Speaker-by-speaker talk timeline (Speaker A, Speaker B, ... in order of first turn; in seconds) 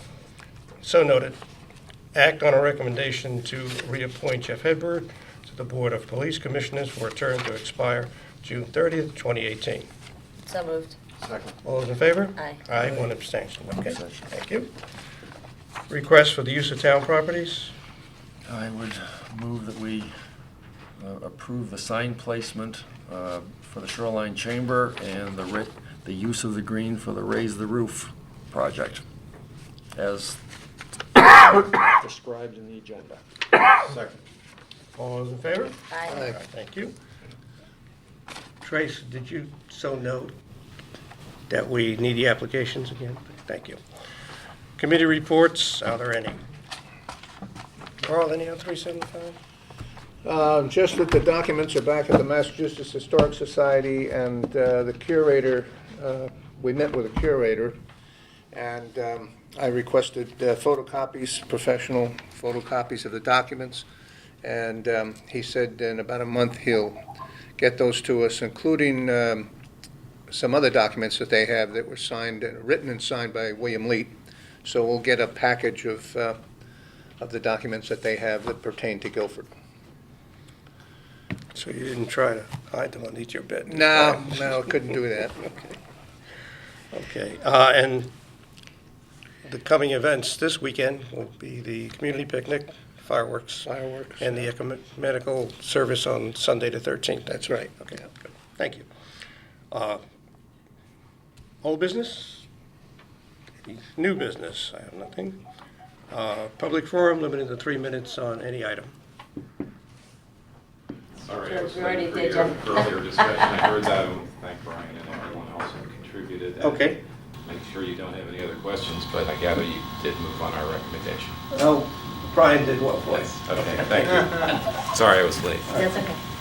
Speaker A: 0.8-1.4, 2.1-9.9, 11.6-14.7, 15.9-17.7, 35.0-36.9, 38.6-40.3, 41.5-43.8, 44.8-46.4, 48.0-49.4, 81.5-84.6, 86.9-88.1, 89.4-98.8, 99.7-100.0, 101.6-102.5, 103.6-105.4, 106.1-108.9, 116.6-117.0, 121.5-124.5
Speaker B: 10.5-11.0, 12.4-12.6, 35.9-36.2, 111.4-113.5, 125.7-126.2
Speaker C: 13.8-14.3, 18.5-20.1, 21.0-29.0, 29.9-30.4, 31.2-33.2, 33.8-34.2
Speaker D: 36.1-36.4, 50.2-57.8, 58.5-63.9, 64.4-67.0, 67.6-69.5, 70.3-76.4, 77.2-79.5, 83.7-85.5, 93.7-94.5
Speaker E: 111.2-116.8, 117.5-121.3, 123.1-125.8